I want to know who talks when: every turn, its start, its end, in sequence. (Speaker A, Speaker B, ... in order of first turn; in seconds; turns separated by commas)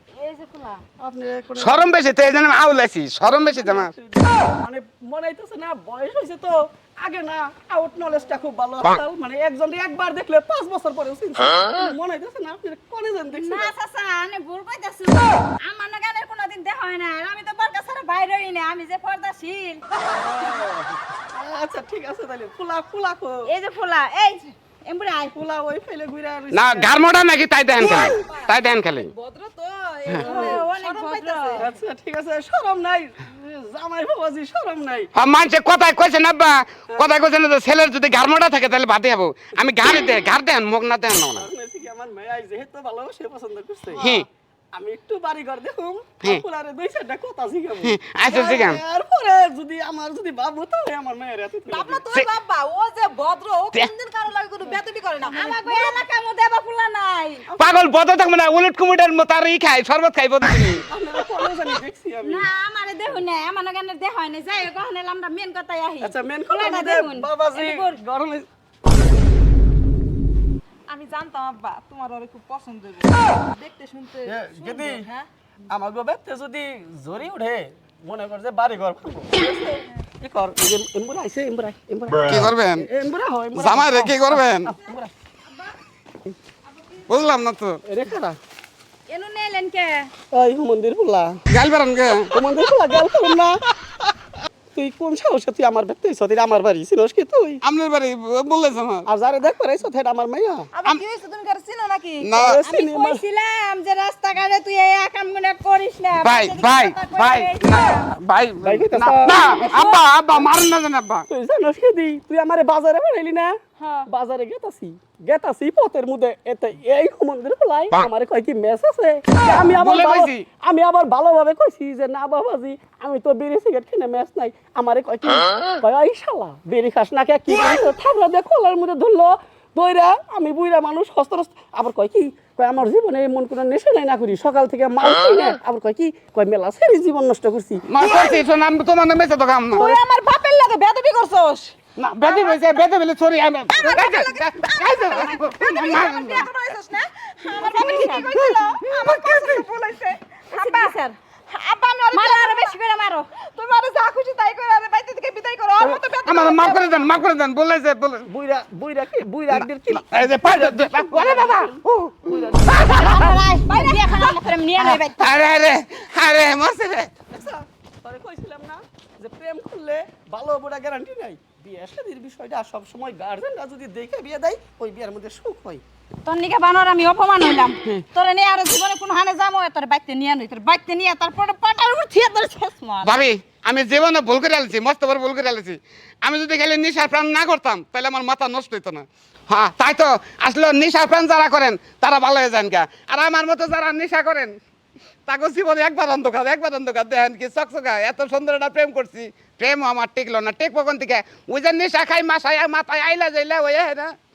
Speaker A: 0.1-0.8, Speaker B: 1.0-1.9, Speaker C: 1.6-3.9, Speaker B: 3.4-13.7, Speaker A: 13.3-19.8, Speaker B: 20.0-23.5, Speaker A: 23.4-25.3, Speaker B: 25.3-27.0, Speaker C: 26.5-29.1, Speaker D: 28.1-31.7, Speaker A: 30.1-31.7, Speaker B: 30.1-30.7, Speaker B: 31.5-35.1, Speaker C: 35.1-41.5, Speaker B: 41.4-52.1, Speaker C: 43.9-44.3, Speaker C: 47.8-48.8, Speaker D: 51.7-56.0, Speaker A: 55.2-57.5, Speaker B: 57.5-57.9, Speaker C: 57.6-60.9, Speaker B: 60.9-62.5, Speaker A: 62.2-68.0, Speaker B: 66.0-68.5, Speaker D: 70.9-75.3, Speaker B: 74.2-75.1, Speaker B: 75.7-85.1, Speaker C: 82.2-82.9, Speaker C: 83.5-84.7, Speaker C: 87.1-87.8, Speaker B: 87.8-88.4, Speaker A: 89.1-90.1, Speaker B: 90.3-91.4, Speaker C: 91.5-92.3, Speaker B: 92.3-94.1, Speaker B: 94.7-97.6, Speaker C: 97.6-99.1, Speaker B: 99.1-100.7, Speaker D: 100.7-102.3, Speaker C: 102.2-102.6, Speaker B: 102.3-103.2, Speaker A: 102.6-108.1, Speaker C: 106.2-111.2, Speaker B: 108.6-109.5, Speaker A: 109.3-110.0, Speaker B: 111.3-137.9, Speaker C: 119.8-120.5, Speaker C: 137.9-139.9, Speaker D: 138.0-138.4, Speaker D: 139.7-142.6, Speaker C: 142.0-146.5, Speaker D: 143.7-152.7, Speaker A: 147.4-148.8, Speaker C: 148.9-149.6, Speaker A: 150.5-151.0, Speaker A: 152.1-153.3, Speaker D: 153.4-157.1, Speaker A: 154.5-155.0, Speaker A: 155.7-156.1, Speaker C: 156.2-158.3, Speaker B: 158.3-163.0, Speaker C: 159.5-163.4, Speaker A: 162.7-165.2, Speaker C: 164.8-167.1, Speaker B: 167.3-175.8, Speaker A: 176.2-183.2, Speaker C: 183.0-194.6, Speaker C: 195.3-204.1